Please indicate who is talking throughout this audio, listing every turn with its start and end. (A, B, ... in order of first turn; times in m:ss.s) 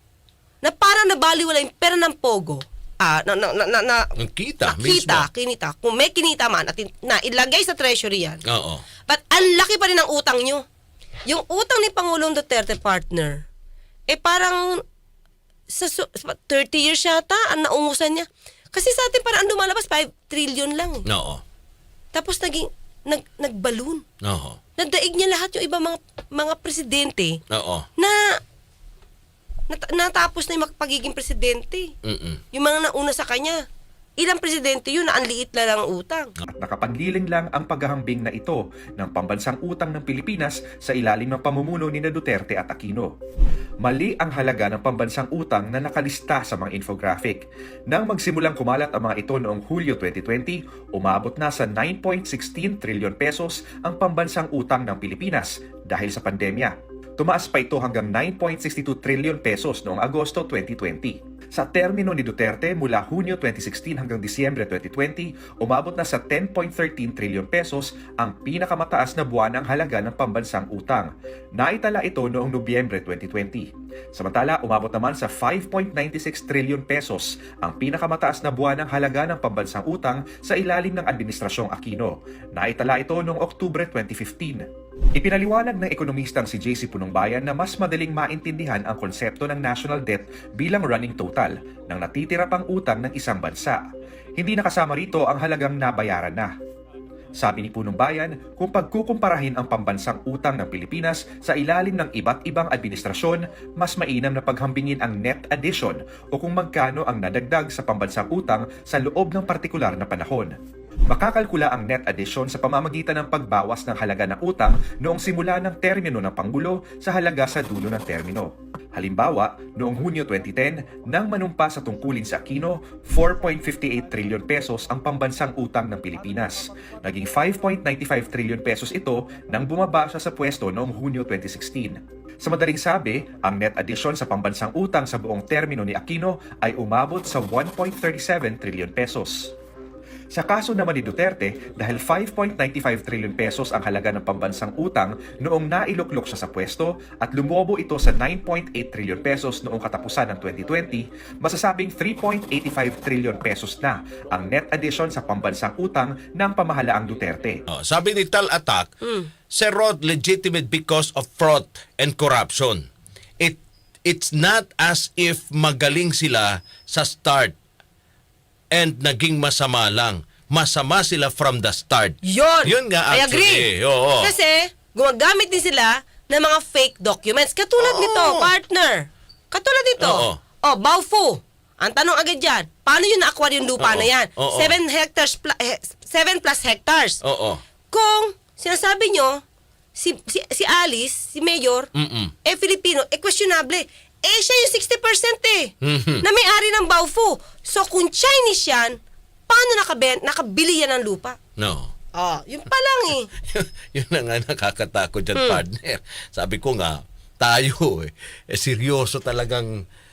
0:00.6-0:04.1 A
0:04.2-0:05.3 B
0:04.6-0:08.4 A
0:08.5-0:08.8 B
0:09.1-0:10.6 A
0:11.3-0:13.4 A
0:14.1-0:14.8 A
0:15.7-0:21.0 A
0:21.1-0:21.4 B
0:22.1-0:24.0 A
0:24.2-0:24.6 B
0:24.8-0:27.4 A
0:27.5-0:27.9 B
0:28.0-0:28.4 A
0:29.7-0:31.9 A
0:32.0-0:32.4 B
0:32.5-0:33.6 A
0:34.2-0:36.3 A
0:36.5-0:43.2 C
0:43.8-1:24.6 C
1:25.2-1:36.5 C
1:37.4-1:50.6 C
1:51.1-2:19.5 C
2:20.3-2:37.6 C
2:37.7-2:38.9 B
2:39.0-2:39.3 A
2:39.5-2:42.9 B
2:43.4-2:47.6 B
2:48.7-2:54.3 B
2:52.2-2:53.7 A
2:54.2-3:07.2 A
2:57.8-2:58.5 B
3:00.0-3:00.4 B
3:03.8-3:04.8 B
3:07.2-3:07.6 B
3:07.9-3:09.4 A
3:10.0-3:11.9 A
3:12.0-3:12.3 B
3:12.4-3:21.4 A
3:15.8-3:16.2 B
3:21.6-3:21.9 B
3:22.2-3:23.3 A
3:23.5-3:29.8 B
3:25.4-3:25.6 A